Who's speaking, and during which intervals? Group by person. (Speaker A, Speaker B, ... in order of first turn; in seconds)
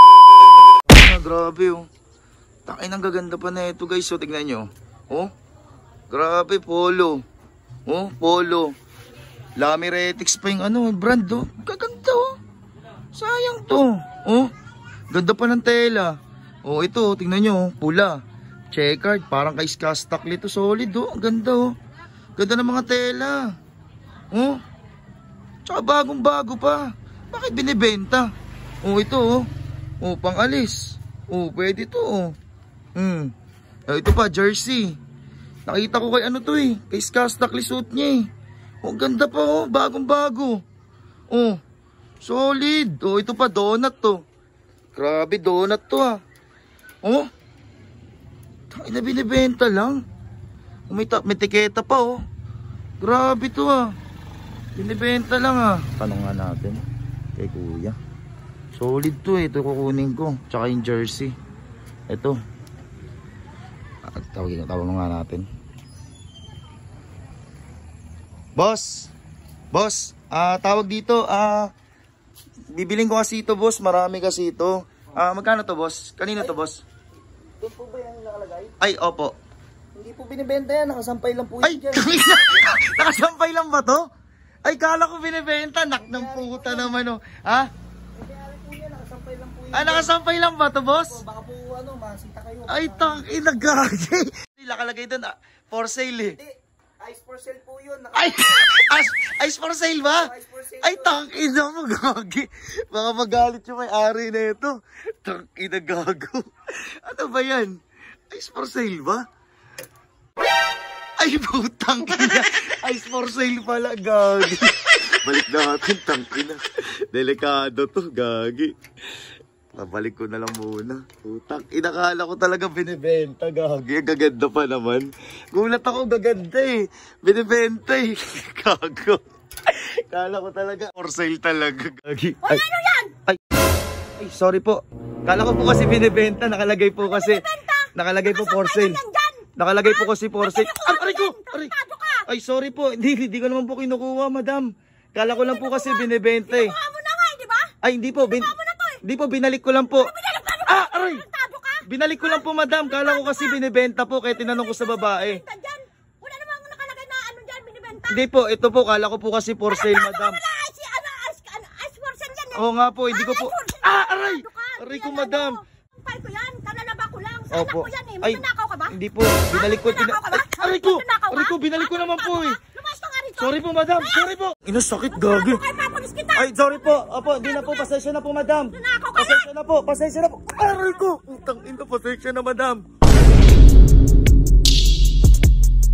Speaker A: 0.9-1.9, 2.7-5.3, 6.1-7.2, 7.9-8.7, 9.6-12.3, 13.2-14.5, 15.1-16.1, 16.6-18.1, 18.7-21.7, 22.4-23.4, 24.3-24.6, 25.7-28.3, 28.8-29.4, 30.0-32.3, 33.0-33.3, 33.9-35.0, 35.7-38.3, 38.8-40.6, 41.3-41.6, 42.2-44.2, 45.0-46.2, 48.7-50.0, 50.9-52.1, 53.0-53.9, 54.8-56.8, 57.4-58.0, 58.8-61.3, 62.1-62.4, 64.1-65.5, 68.6-69.1, 69.7-71.7, 72.7-76.8, 78.8-79.3, 81.6-84.1, 84.7-87.7, 89.7-91.2, 92.7-96.4, 98.1-107.7, 108.3-109.2, 111.2-118.7, 119.8-132.6, 134.2-137.4, 138.0-139.0, 139.6-141.7, 142.3-146.8, 147.8-148.5, 149.1-150.1, 150.7-151.2, 151.9-155.4, 158.1-160.4, 162.6-165.6, 167.5-172.6, 173.4-175.6, 176.4-182.8
Speaker B: 77.6-78.8, 80.0-82.2, 86.0-87.0, 88.2-90.1, 90.9-93.2, 96.4-98.4, 100.2-101.2
Speaker C: 132.4-133.1, 137.0-142.3, 145.4-147.7, 148.3-149.0, 150.0-153.6, 154.3-158.2, 159.7-168.9, 169.5-174.3, 175.2-177.9, 178.7-179.5, 181.2-181.8